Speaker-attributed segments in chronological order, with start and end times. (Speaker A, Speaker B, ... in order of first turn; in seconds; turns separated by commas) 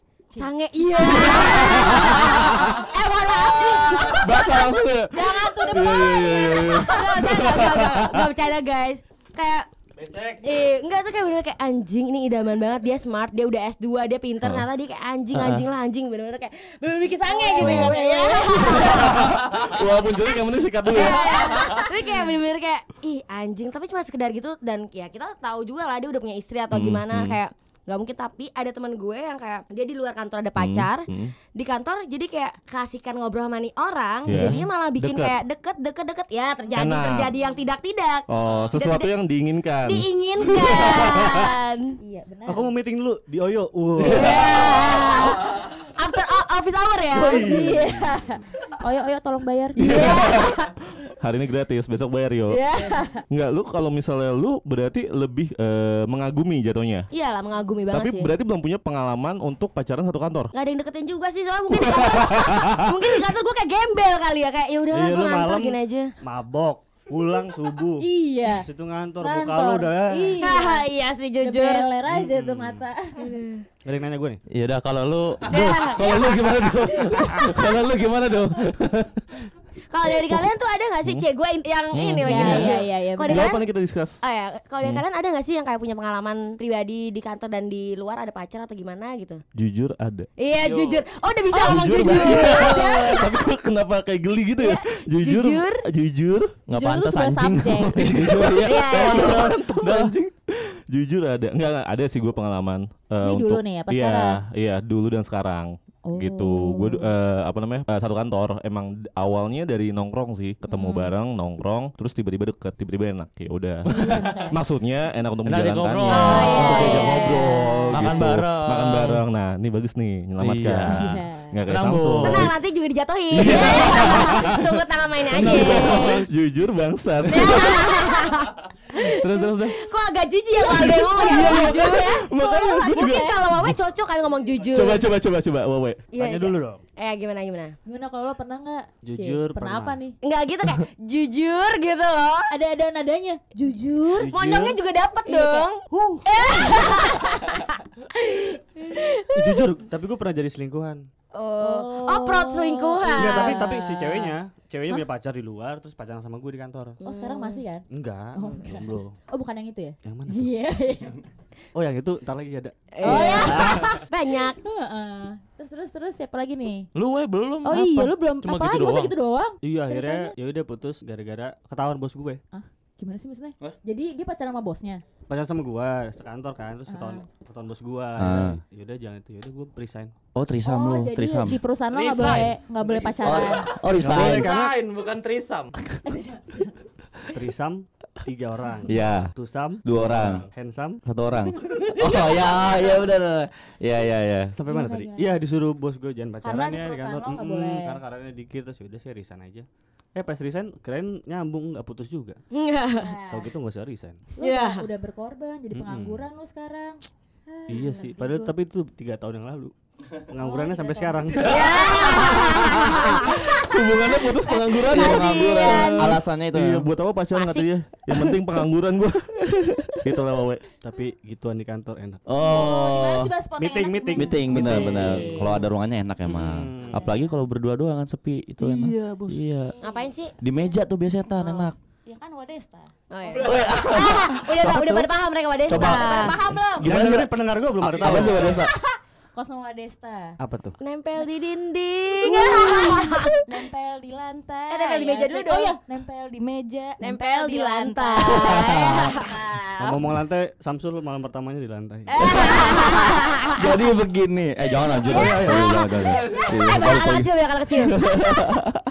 Speaker A: 0.3-4.5, Speaker B: 0.3-4.7, Speaker C: 1.3-2.7, Speaker C: 4.0-8.3, Speaker A: 5.1-7.8, Speaker B: 5.7-9.7, Speaker D: 10.0-10.5, Speaker B: 10.4-19.4, Speaker E: 15.3-15.7, Speaker A: 17.2-19.1, Speaker C: 17.6-17.9, Speaker C: 18.6-21.8, Speaker B: 20.9-39.1, Speaker A: 20.9-22.3, Speaker C: 26.7-27.4, Speaker C: 30.6-31.3, Speaker C: 34.2-35.4, Speaker C: 36.8-37.3, Speaker C: 38.3-41.5, Speaker B: 39.8-42.0, Speaker A: 42.0-42.7, Speaker D: 42.5-44.3, Speaker B: 44.0-47.5, Speaker C: 44.1-45.0, Speaker C: 47.1-47.9, Speaker A: 47.3-50.4, Speaker C: 49.8-52.6, Speaker B: 49.9-50.5, Speaker A: 52.5-53.2, Speaker B: 52.8-53.0, Speaker C: 53.3-57.1, Speaker B: 57.1-58.3, Speaker C: 57.9-60.5, Speaker B: 60.5-66.1, Speaker C: 61.7-63.0, Speaker D: 64.9-70.4, Speaker A: 68.0-68.7, Speaker A: 69.2-70.9, Speaker B: 70.4-71.9, Speaker A: 71.4-73.3, Speaker D: 72.2-72.8, Speaker B: 73.2-73.7, Speaker D: 73.8-74.4, Speaker E: 74.5-79.1, Speaker C: 75.5-76.8, Speaker B: 75.5-76.5, Speaker A: 76.9-77.4, Speaker B: 79.9-89.4, Speaker C: 81.9-84.2, Speaker A: 82.2-83.5, Speaker C: 89.5-90.3, Speaker B: 90.4-93.4, Speaker E: 90.6-91.0, Speaker A: 91.5-93.2, Speaker C: 91.6-96.6, Speaker A: 94.6-95.8, Speaker E: 96.7-98.5, Speaker A: 96.7-98.0, Speaker C: 97.9-122.6, Speaker F: 98.4-99.1, Speaker B: 98.6-100.0, Speaker A: 99.0-99.4, Speaker A: 103.2-104.4, Speaker A: 106.0-107.1, Speaker A: 110.6-111.1, Speaker A: 114.0-114.5, Speaker E: 115.4-117.0, Speaker B: 116.1-118.1, Speaker A: 116.1-117.7, Speaker E: 117.9-119.2, Speaker E: 120.4-120.9, Speaker A: 120.8-121.6, Speaker E: 121.7-122.5, Speaker B: 122.2-126.3, Speaker C: 123.3-128.1, Speaker E: 123.4-124.0, Speaker B: 127.3-135.1, Speaker E: 129.0-129.8, Speaker C: 130.6-133.8, Speaker A: 130.8-132.0, Speaker A: 132.9-133.4, Speaker C: 134.7-136.1, Speaker B: 136.1-137.7, Speaker D: 136.1-136.8, Speaker A: 137.8-140.2, Speaker D: 139.0-140.0, Speaker B: 140.2-142.5, Speaker A: 142.5-144.3, Speaker D: 144.2-144.8, Speaker B: 144.3-149.6, Speaker A: 145.2-145.7, Speaker D: 145.9-146.2, Speaker D: 149.3-151.0, Speaker B: 151.3-153.6, Speaker A: 151.6-154.3, Speaker D: 153.1-157.0, Speaker B: 157.0-157.6, Speaker A: 157.0-161.2, Speaker D: 157.9-159.2, Speaker B: 158.5-158.8, Speaker D: 160.0-160.5, Speaker D: 161.7-164.0, Speaker B: 162.9-164.6, Speaker A: 163.0-164.0, Speaker A: 164.6-166.9, Speaker E: 166.9-169.1, Speaker A: 167.6-170.3, Speaker D: 169.6-172.4, Speaker A: 172.5-175.0, Speaker D: 175.3-180.1, Speaker A: 176.9-177.2, Speaker F: 178.2-178.6, Speaker F: 180.3-181.6, Speaker A: 180.6-183.6, Speaker E: 181.9-185.7, Speaker F: 183.2-184.5, Speaker D: 184.0-184.8, Speaker A: 186.1-186.7, Speaker D: 187.3-191.0, Speaker F: 188.9-190.5, Speaker F: 191.0-194.5, Speaker D: 194.5-202.4, Speaker A: 194.7-195.3, Speaker A: 196.4-198.0, Speaker B: 202.5-203.1, Speaker A: 203.0-203.5, Speaker D: 203.3-204.3, Speaker A: 204.4-208.5, Speaker B: 204.4-204.9, Speaker D: 205.7-206.2, Speaker D: 207.7-209.7, Speaker D: 210.3-211.8, Speaker A: 210.4-213.6, Speaker B: 211.4-216.1, Speaker C: 212.0-220.6, Speaker F: 214.9-216.8, Speaker B: 217.3-217.7, Speaker D: 220.8-222.2, Speaker F: 222.3-223.3, Speaker A: 222.4-225.6, Speaker D: 223.6-225.6, Speaker F: 224.1-229.7, Speaker B: 224.7-225.4, Speaker D: 226.3-227.0, Speaker A: 226.9-227.2, Speaker D: 228.8-229.3, Speaker C: 228.8-229.2, Speaker A: 229.8-230.1, Speaker B: 229.8-230.3, Speaker F: 230.4-231.8, Speaker A: 231.4-233.5, Speaker B: 233.1-236.4, Speaker F: 233.4-235.1, Speaker C: 234.7-234.9, Speaker F: 235.7-238.7, Speaker A: 235.7-236.9, Speaker D: 236.8-238.6, Speaker A: 238.2-240.4, Speaker D: 240.4-240.8, Speaker B: 240.8-243.4, Speaker A: 242.2-250.0, Speaker B: 244.7-245.8, Speaker B: 247.0-249.2, Speaker F: 248.2-249.1, Speaker D: 249.8-252.2, Speaker A: 252.1-253.5, Speaker B: 252.2-253.7, Speaker F: 252.2-257.3, Speaker B: 255.0-258.0, Speaker A: 255.1-255.7, Speaker C: 255.2-255.6, Speaker E: 256.0-256.7, Speaker F: 257.9-258.6